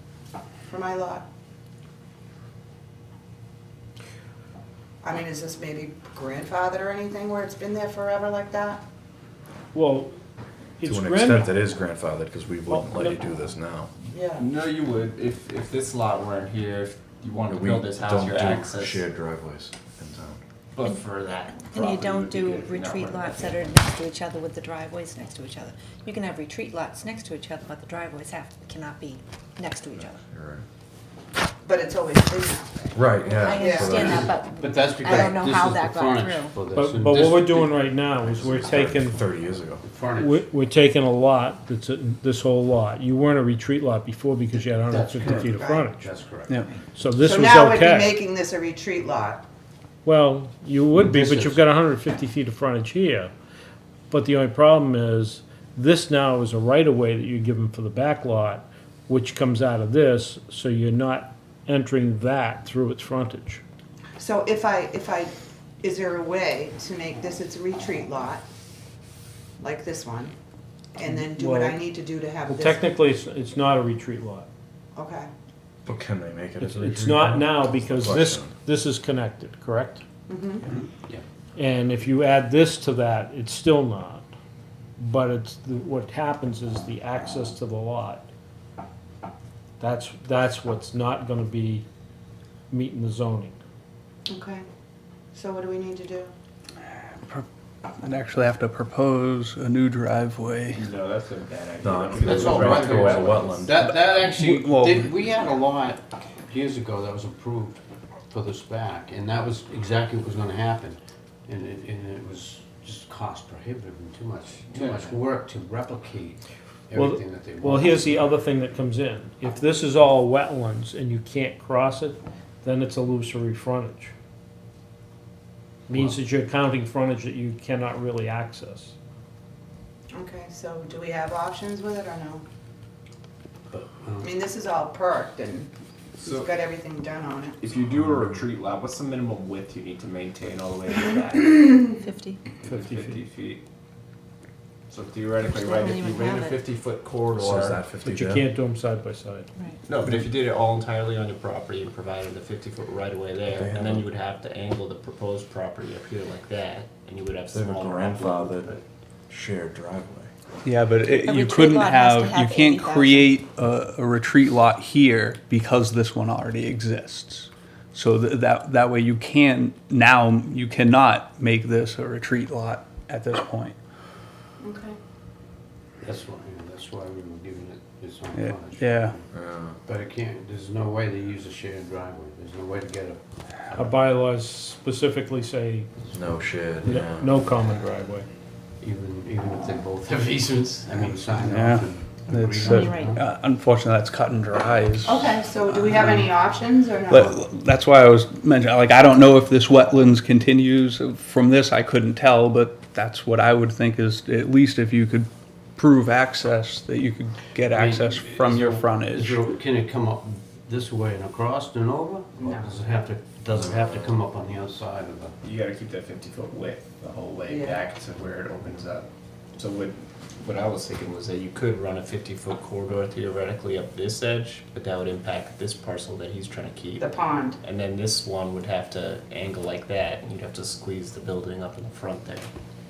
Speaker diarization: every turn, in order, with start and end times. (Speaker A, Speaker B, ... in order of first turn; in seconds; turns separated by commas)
Speaker A: 0.7-1.2, Speaker A: 5.0-8.8, Speaker B: 9.7-10.1, Speaker B: 10.8-11.5, Speaker C: 10.8-13.9, Speaker B: 12.7-13.2, Speaker A: 14.1-14.5, Speaker D: 14.4-19.1, Speaker C: 17.5-20.4, Speaker D: 20.7-23.8, Speaker E: 21.6-30.2, Speaker C: 30.0-30.6, Speaker A: 31.6-33.0, Speaker C: 32.9-34.3, Speaker E: 33.2-36.6, Speaker A: 33.6-34.0, Speaker F: 34.0-37.8, Speaker B: 36.7-39.2, Speaker C: 38.2-39.8, Speaker F: 39.8-40.4, Speaker B: 40.2-46.1, Speaker F: 44.8-46.6, Speaker A: 45.5-45.8, Speaker B: 46.9-48.2, Speaker A: 47.2-49.4, Speaker B: 50.0-53.3, Speaker F: 51.0-51.6, Speaker B: 54.1-63.6, Speaker A: 64.2-68.4, Speaker A: 69.6-70.3, Speaker A: 70.9-72.9, Speaker B: 71.0-71.8, Speaker B: 72.5-74.5, Speaker A: 74.9-75.3, Speaker C: 75.8-78.5, Speaker B: 76.6-80.0, Speaker A: 80.3-80.7, Speaker F: 80.7-81.2, Speaker B: 81.5-84.3, Speaker B: 85.0-88.3, Speaker B: 89.8-91.8, Speaker B: 92.7-93.6, Speaker A: 94.3-94.6, Speaker A: 95.3-96.3, Speaker G: 98.0-100.8, Speaker D: 100.7-103.7, Speaker C: 101.8-103.8, Speaker F: 102.2-118.3, Speaker G: 103.8-105.1, Speaker D: 114.7-115.1, Speaker B: 116.9-124.1, Speaker B: 125.9-128.9, Speaker F: 125.9-126.2, Speaker A: 130.1-132.4, Speaker F: 133.7-134.4, Speaker A: 134.2-135.7, Speaker D: 136.2-136.5, Speaker A: 136.2-137.6, Speaker D: 137.6-142.0, Speaker E: 142.0-142.5, Speaker D: 142.6-143.6, Speaker B: 142.6-143.2, Speaker D: 144.9-147.8, Speaker E: 145.5-146.6, Speaker C: 147.3-148.4, Speaker B: 148.0-149.5, Speaker D: 149.8-158.8, Speaker C: 153.5-154.1, Speaker C: 157.5-158.7, Speaker C: 159.3-160.3, Speaker G: 160.6-173.8, Speaker E: 161.1-163.4, Speaker A: 174.6-175.0, Speaker F: 176.0-179.2, Speaker G: 178.3-179.2, Speaker C: 179.3-179.8, Speaker F: 179.8-183.2, Speaker B: 183.7-185.9, Speaker C: 186.1-187.4, Speaker B: 186.8-188.3, Speaker F: 188.8-193.2, Speaker G: 191.4-196.4, Speaker E: 192.7-193.1, Speaker A: 195.0-197.4, Speaker G: 197.1-209.4, Speaker F: 207.7-215.3, Speaker A: 212.4-212.7, Speaker C: 213.5-214.2, Speaker D: 215.4-232.5, Speaker A: 217.5-217.8, Speaker A: 227.0-227.6